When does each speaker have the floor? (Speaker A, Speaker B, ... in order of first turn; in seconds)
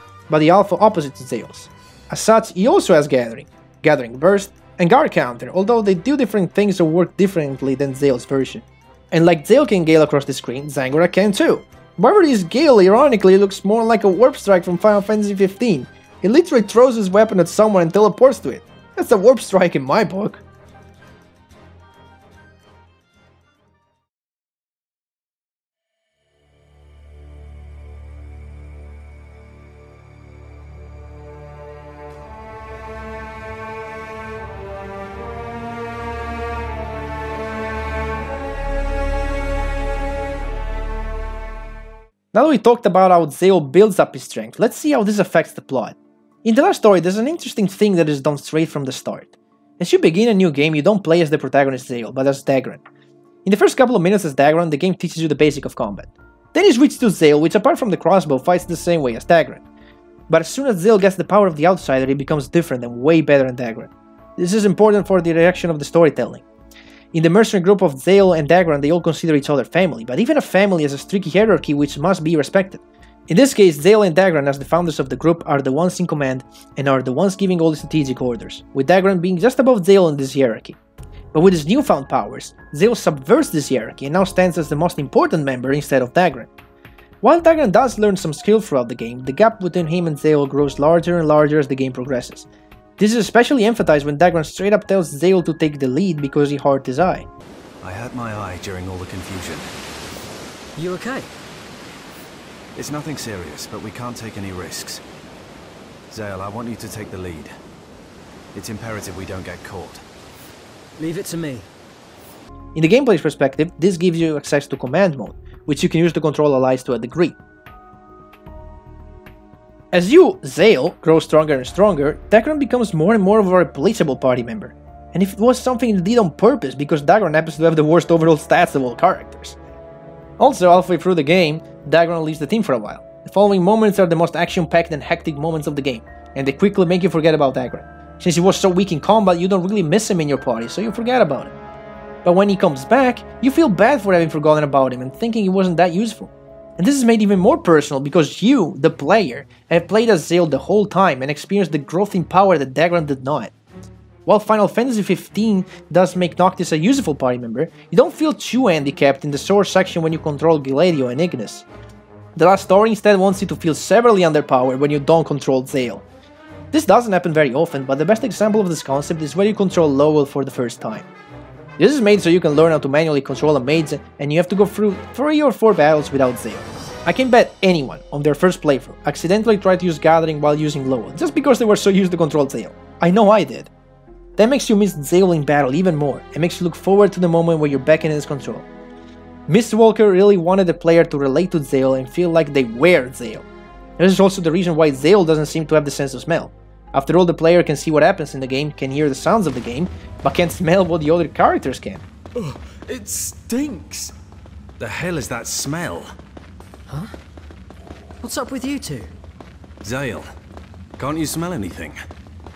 Speaker A: 0.3-20.4, 42.3-52.8, 53.4-59.6, 60.3-66.4, 67.1-80.8, 81.3-86.5, 87.2-92.5, 93.0-97.3, 112.7-117.4, 119.9-129.6, 130.4-141.5, 142.2-153.5, 154.2-161.7, 162.3-166.0, 166.7-171.1, 171.8-183.7, 184.4-188.7, 189.5-193.4, 194.0-202.0
Speaker B: 97.8-99.7, 102.8-105.0, 106.1-107.5, 108.5-110.0, 202.9-204.1, 204.8-206.1, 209.8-210.2, 211.0-212.0
Speaker C: 100.8-101.3, 111.0-111.7, 203.0-203.9, 208.2-209.1